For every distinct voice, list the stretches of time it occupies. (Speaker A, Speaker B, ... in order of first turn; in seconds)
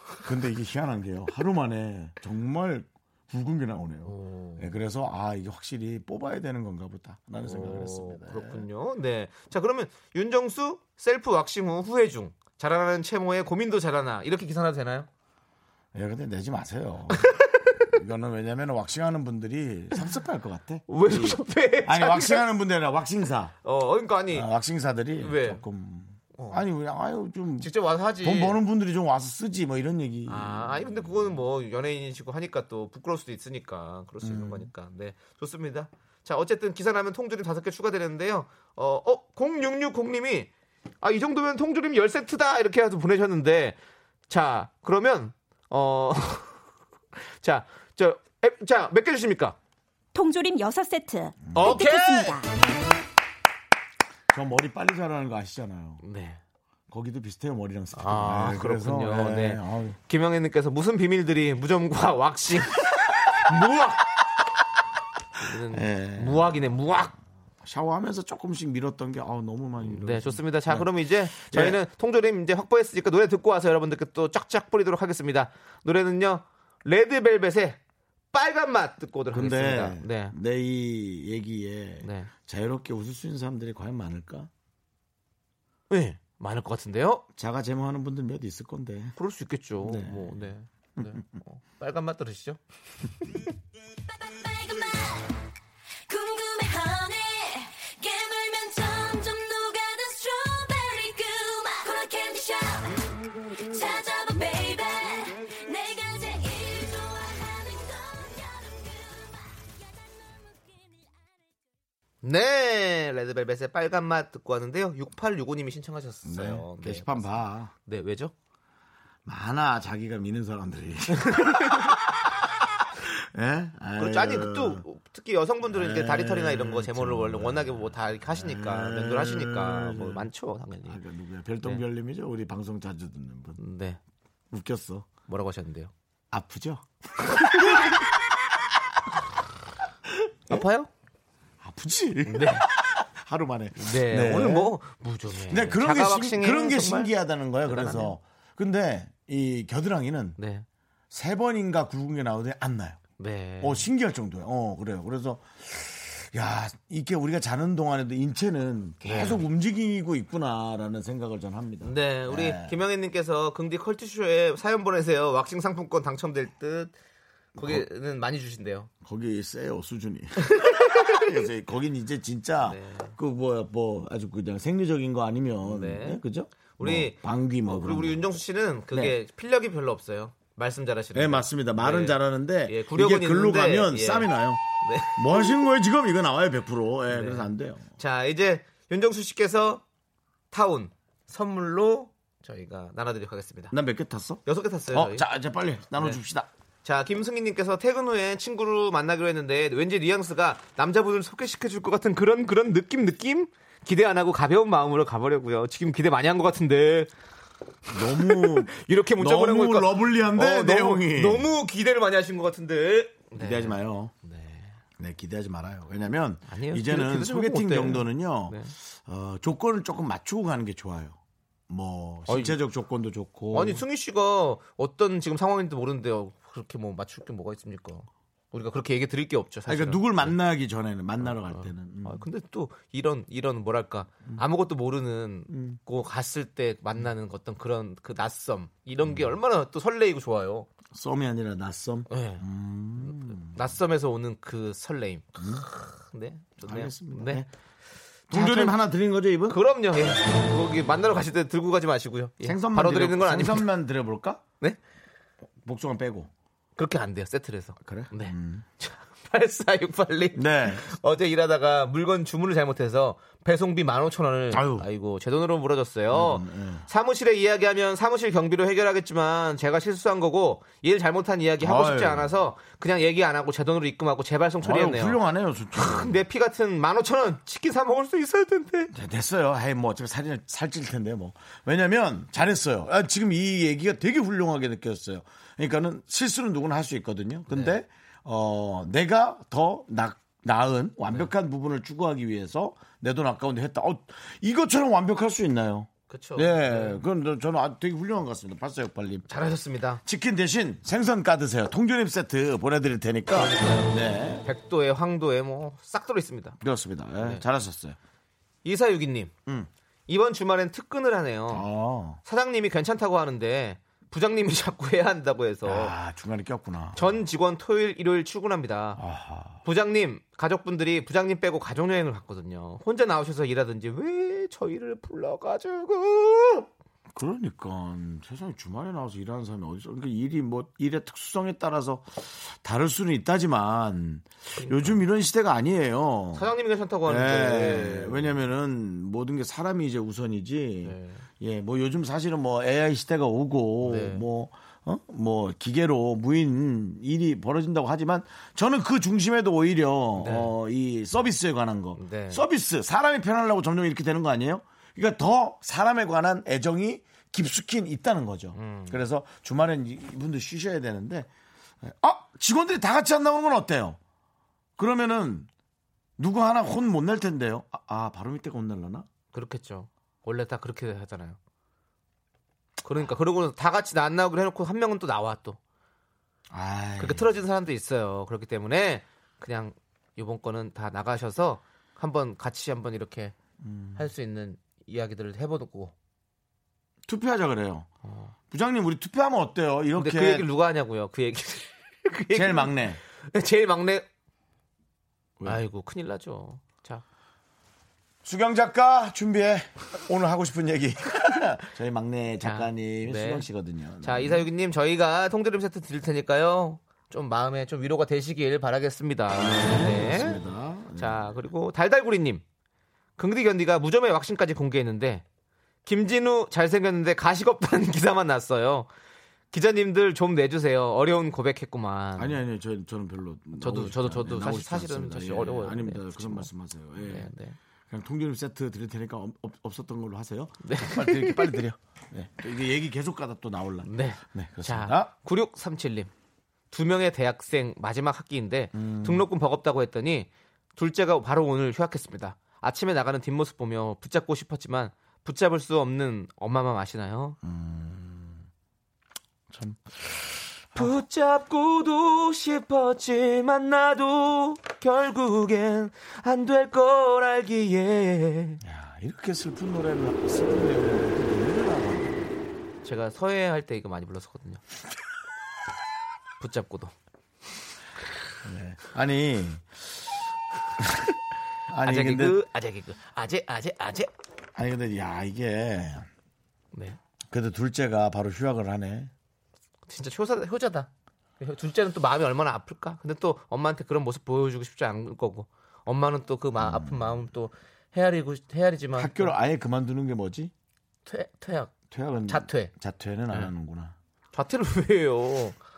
Speaker A: 0.2-8.7, 15.9-17.3, 17.9-23.5, 24.3-27.7, 28.2-31.4, 34.2-34.7, 54.3-56.0, 56.9-60.0, 65.7-66.6, 67.6-70.9, 71.4-71.8, 79.3-84.5, 87.3-89.2, 89.8-91.2, 116.2-117.7, 119.2-122.4, 123.0-124.8, 125.7-130.2, 130.9-133.6, 134.5-135.1, 136.3-138.0, 141.6-144.7, 145.5-150.4, 151.1-153.0, 153.6-162.7, 167.6-167.8, 169.0-178.2, 181.1-184.6, 185.1-187.9, 193.7-196.5, 207.9-211.5, 213.3-214.1, 215.0-221.2, 221.7-223.8, 229.7-232.2, 235.5-235.8, 240.9-243.6, 245.4-245.6, 246.6-247.5, 248.3-249.6, 252.4-254.4, 255.6-256.3, 257.8-258.6, 260.3-260.9, 264.5-264.9, 266.1-266.9, 271.6-272.3, 274.6-276.2, 278.9-299.2, 300.0-304.4, 306.6-308.0, 311.5-312.2, 315.6-317.2, 318.9-319.6, 327.1-336.5, 337.1-361.3, 361.8-364.0, 364.8-365.5, 366.2-369.1, 376.5-377.3, 383.6-384.1, 387.1-387.9, 388.5-390.4, 392.3-393.0, 398.2-404.4, 409.3-411.4, 422.2-427.3, 427.9-435.1, 438.7-439.2, 447.4-448.4, 449.5-449.8, 458.6-462.3, 468.4-470.0, 470.8-471.1, 471.7-472.4, 474.6-476.1, 477.3-479.1, 486.6-487.1, 488.9-490.5, 491.9-493.9
Speaker B: 4.0-4.7, 7.4-15.1, 17.1-17.8, 20.9-22.4, 23.6-24.5, 25.2-25.6, 26.4-26.6, 27.6-28.6, 30.3-40.5, 41.0-43.8, 44.3-46.6, 47.2-49.5, 51.5-52.4, 56.0-56.4, 57.9-64.0, 65.4-67.1, 69.8-77.8, 78.3-80.3, 82.0-82.3, 85.9-87.2, 89.2-92.6, 112.2-118.3, 121.2-121.9, 124.0-131.0, 133.6-134.0, 135.2-135.9, 140.5-140.9, 142.3-142.7, 143.8-147.1, 147.6-148.2, 150.4-150.7, 153.2-153.9, 159.0-159.4, 161.8-166.9, 167.6-168.9, 170.4-171.3, 172.6-173.1, 175.6-184.3, 184.8-185.7, 187.1-189.8, 190.5-193.7, 194.4-195.2, 196.8-207.1, 207.9-214.8, 216.5-218.7, 222.3-222.6, 223.5-230.3, 231.2-240.7, 242.1-242.4, 243.0-247.4, 248.3-248.8, 249.5-253.7, 256.8-275.2, 275.7-278.9, 296.1-297.0, 299.3-300.0, 303.3-306.6, 308.6-309.3, 310.1-311.6, 312.2-315.9, 316.9-319.0, 319.6-326.7, 334.6-335.0, 336.3-338.3, 340.8-341.2, 343.8-344.2, 350.2-350.5, 352.0-352.4, 358.6-359.0, 369.3-371.4, 372.8-375.6, 377.0-383.3, 383.9-385.9, 388.0-388.3, 389.9-394.0, 395.4-397.0, 402.4-403.4, 404.0-410.4, 410.9-412.4, 413.2-415.2, 415.9-418.9, 419.5-422.4, 423.6-426.5, 427.0-427.6, 430.6-431.6, 433.8-436.1, 436.7-447.4, 450.7-458.6, 462.8-464.6, 466.4-466.9, 471.8-474.1, 479.9-480.9, 481.4-489.3, 491.1-492.7, 494.3-495.6
Speaker C: 50.1-52.4
Speaker D: 94.1-95.4, 96.1-111.1